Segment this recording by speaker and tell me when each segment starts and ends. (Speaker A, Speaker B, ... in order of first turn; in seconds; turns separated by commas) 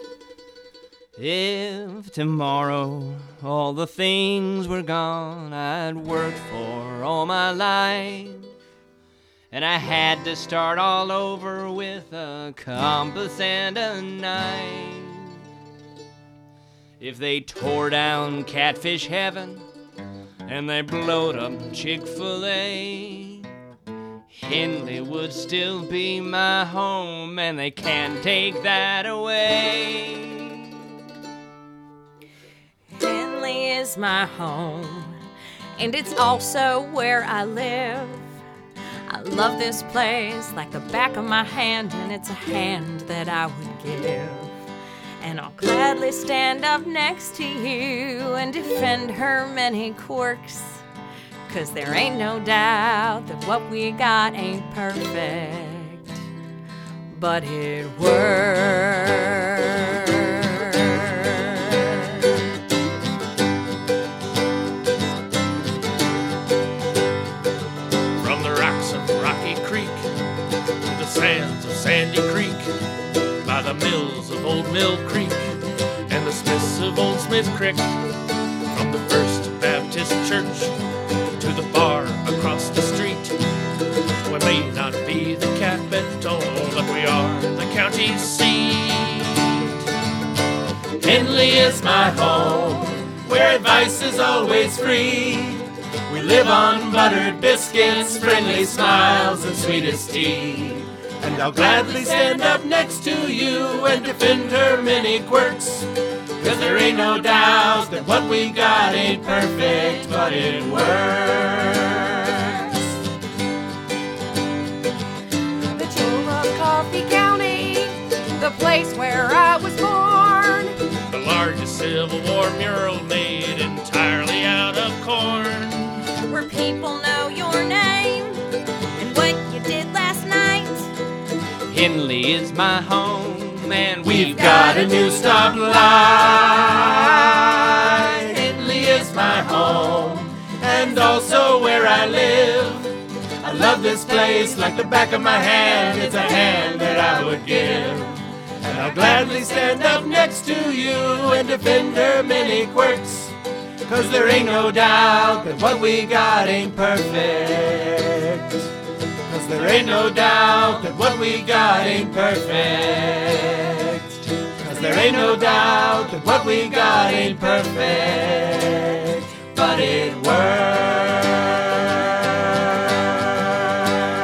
Speaker A: 1.2-8.5, Speaker A: 9.5-15.4, Speaker A: 17.0-19.7, Speaker A: 20.4-23.5, Speaker A: 24.3-30.6, Speaker B: 33.0-35.2, Speaker B: 35.8-38.3, Speaker B: 39.1-44.5, Speaker B: 45.2-50.8, Speaker B: 51.5-56.2, Speaker B: 57.1-62.1, Speaker C: 68.2-70.1, Speaker C: 70.8-72.7, Speaker C: 73.4-75.6, Speaker C: 76.1-77.9, Speaker C: 78.7-80.8, Speaker C: 81.4-83.4, Speaker C: 84.2-89.7, Speaker D: 91.0-112.8, Speaker E: 115.8-120.8, Speaker C: 121.1-126.0, Speaker B: 126.3-128.4, Speaker B: 129.0-130.9, Speaker A: 131.7-134.7, Speaker D: 134.0-158.7, Speaker B: 134.4-135.5, Speaker D: 159.3-173.1